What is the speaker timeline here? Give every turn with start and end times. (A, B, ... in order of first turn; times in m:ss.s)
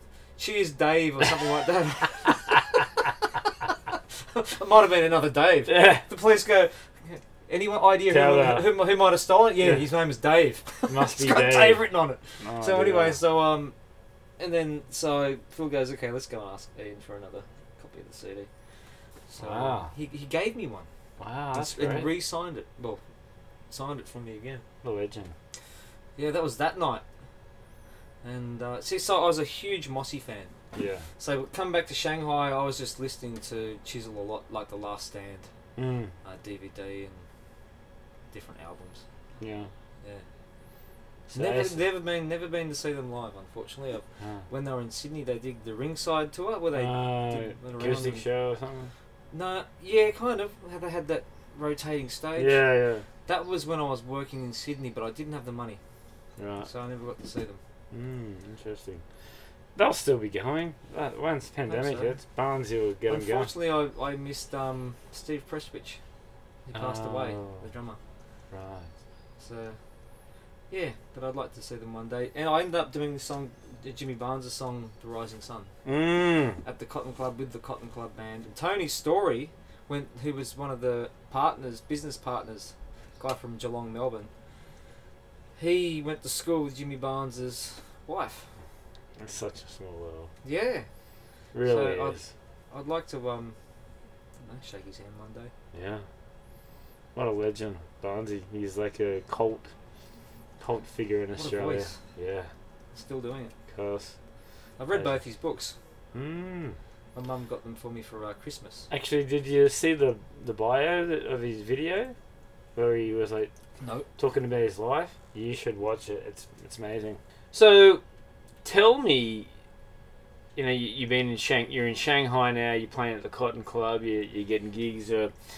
0:00.4-0:13.7 A
0:05.7-0:06.0 B
0:08.1-0:08.8 B
0:10.9-0:11.9 B
0:12.4-0:13.2 B
0:14.4-0:18.5 A
0:19.3-0:20.9 A
0:19.4-0:19.9 B
0:21.2-0:22.1 B
0:21.5-0:23.0 A
0:23.7-0:24.6 A
0:24.8-0:25.3 B
0:26.2-0:27.0 A
0:28.2-0:30.5 A
0:30.7-0:31.1 B
0:31.2-0:35.5 A
0:35.8-0:36.1 B
0:36.2-0:37.3 A
0:38.3-0:39.0 A
0:39.4-0:39.7 B
0:41.3-0:41.8 B
0:41.3-0:48.2 A
0:44.2-0:44.4 B
0:46.7-0:48.9 B
0:49.3-0:52.6 A
0:52.4-0:53.0 B
0:53.3-0:55.8 A
0:56.4-0:56.7 B
0:56.6-0:57.6 A
0:57.9-0:59.0 B
0:59.8-1:03.5 B
1:01.7-1:02.2 A
1:03.1-1:06.0 A
1:06.7-1:08.0 A
1:06.7-1:07.6 B
1:08.5-1:08.9 B
1:09.4-1:09.8 A
1:10.7-1:15.7 A
1:15.9-1:16.6 B
1:16.6-1:24.3 A
1:25.6-1:28.5 A
1:29.2-1:30.3 B
1:30.4-1:30.9 A
1:31.5-1:32.3 B
1:31.6-1:33.6 A
1:34.4-1:35.5 A
1:35.7-1:36.0 B
1:37.2-1:39.7 B
1:40.6-1:42.5 B
1:41.4-1:42.0 A
1:42.9-1:43.6 A
1:43.7-1:44.1 B
1:44.8-1:45.8 A
1:46.1-1:46.8 B
1:47.2-1:48.9 A
1:48.9-1:52.2 B
1:52.8-1:53.5 B
1:53.8-1:54.1 A
1:54.2-1:58.0 B
1:58.6-1:59.5 B
2:00.6-2:05.3 B